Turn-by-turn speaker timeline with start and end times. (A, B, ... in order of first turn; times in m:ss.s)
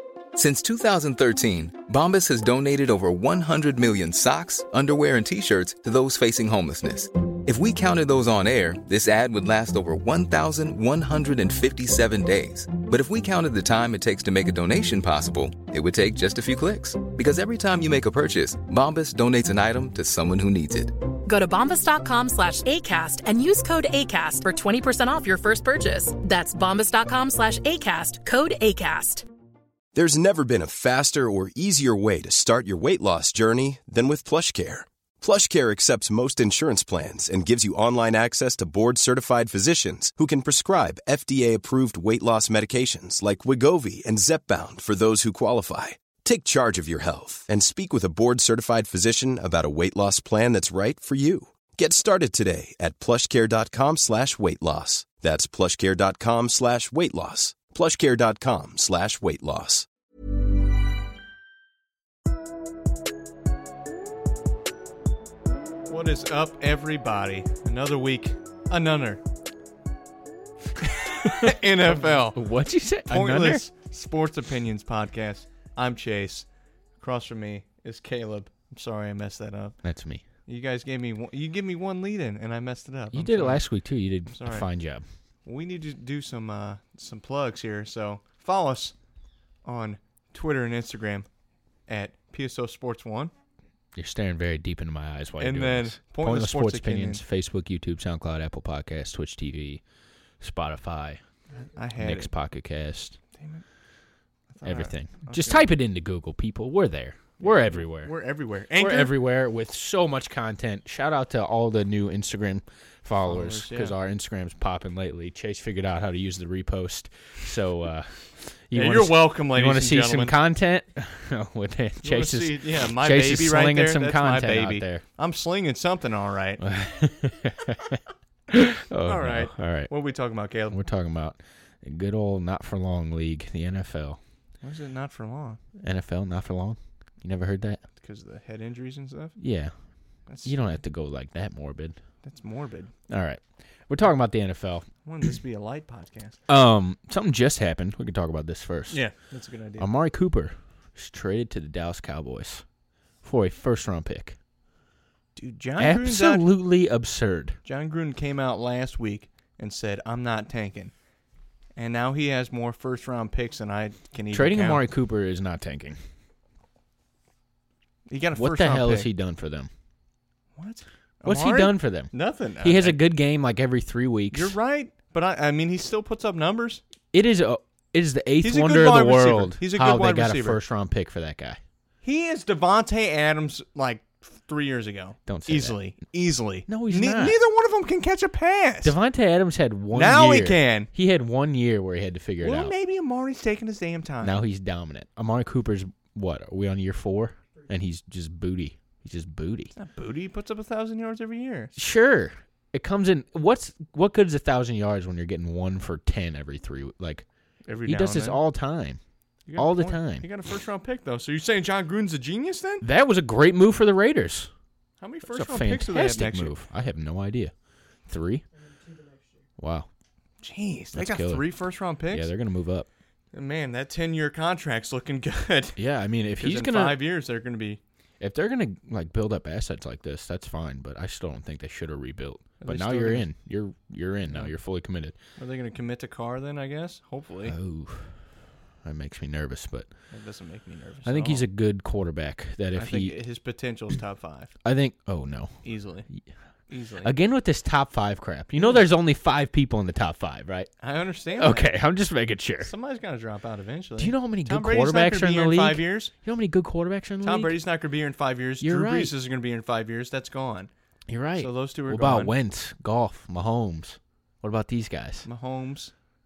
0:00.3-0:20.9 A
0:21.2-0:29.2 B
0:29.9-0:59.9 C
1:05.9-1:09.2 D
1:10.8-1:12.4 D
1:11.2-1:13.6 E
1:13.1-1:16.5 D
1:17.0-1:19.8 D
1:19.8-1:20.2 E
1:20.5-1:23.6 D
1:23.1-1:25.0 E
1:24.3-1:24.7 D
1:25.4-1:28.9 D
1:29.6-1:31.3 D
1:31.9-1:33.3 D
1:33.9-1:39.8 E
1:35.4-1:37.2 D
1:40.4-1:41.2 E
1:41.6-1:42.3 D
1:42.0-1:43.2 E
1:43.3-1:43.6 D
1:44.5-1:45.7 D
1:44.6-1:48.1 E
1:47.4-1:49.1 D
1:48.8-2:05.0 E
1:53.2-1:53.9 D
1:58.7-2:00.3 D
2:02.0-2:06.6 D
2:06.6-2:09.9 E
2:09.0-2:10.8 D
2:10.7-2:14.2 E
2:14.6-2:15.6 D
2:15.8-2:17.8 E
2:18.0-2:19.4 D
2:19.4-2:19.7 E
2:20.3-2:20.8 D
2:20.4-2:22.0 E
2:22.2-2:22.9 D
2:23.1-2:24.8 E
2:25.0-2:26.4 D
2:26.5-2:29.0 E
2:28.9-2:29.9 D
2:29.8-2:32.6 E
2:33.2-2:34.4 E
2:35.4-2:36.4 D
2:35.8-2:37.6 E
2:37.6-2:40.9 D
2:41.8-2:44.8 D
2:44.3-2:46.0 E
2:48.1-2:49.1 D
2:48.3-2:49.7 E
2:50.6-2:53.0 D
2:51.2-2:54.5 E
2:54.3-2:56.8 D
2:57.1-3:01.6 E
2:58.4-3:00.6 D
3:02.0-3:08.9 D
3:05.3-3:05.8 E
3:06.7-3:07.4 E
3:08.8-3:12.7 E
3:09.9-3:10.9 D
3:12.4-3:14.4 D
3:14.2-3:19.7 E
3:19.8-3:21.7 D
3:21.8-3:27.2 E
3:27.7-3:28.4 D
3:27.8-3:29.0 E
3:29.5-3:32.8 D
3:29.6-3:30.3 E
3:32.8-3:34.5 E
3:35.0-3:36.5 D
3:35.2-3:37.5 E
3:38.1-3:38.4 E
3:39.6-3:39.9 E
3:40.4-3:42.3 D
3:40.9-3:41.4 E
3:42.1-3:42.9 E
3:43.3-3:45.8 D
3:45.8-3:47.0 E
3:46.4-3:47.8 D
3:48.2-3:55.2 E
3:52.6-3:53.3 D
3:54.3-3:54.5 D
3:55.4-3:57.6 D
3:57.4-3:58.2 E
3:58.8-3:59.9 E
4:00.1-4:01.4 D
4:01.0-4:03.2 E
4:02.8-4:04.5 D
4:04.6-4:05.5 E
4:05.6-4:06.1 D
4:06.7-4:07.2 D
4:07.0-4:10.7 E
4:08.6-4:08.8 D
4:10.8-4:11.7 D
4:11.4-4:12.7 E
4:12.6-4:16.1 D
4:14.0-4:17.6 E
4:17.2-4:20.7 D
4:18.6-4:19.1 E
4:21.1-4:25.3 E
4:21.4-4:22.3 D
4:25.2-4:25.9 D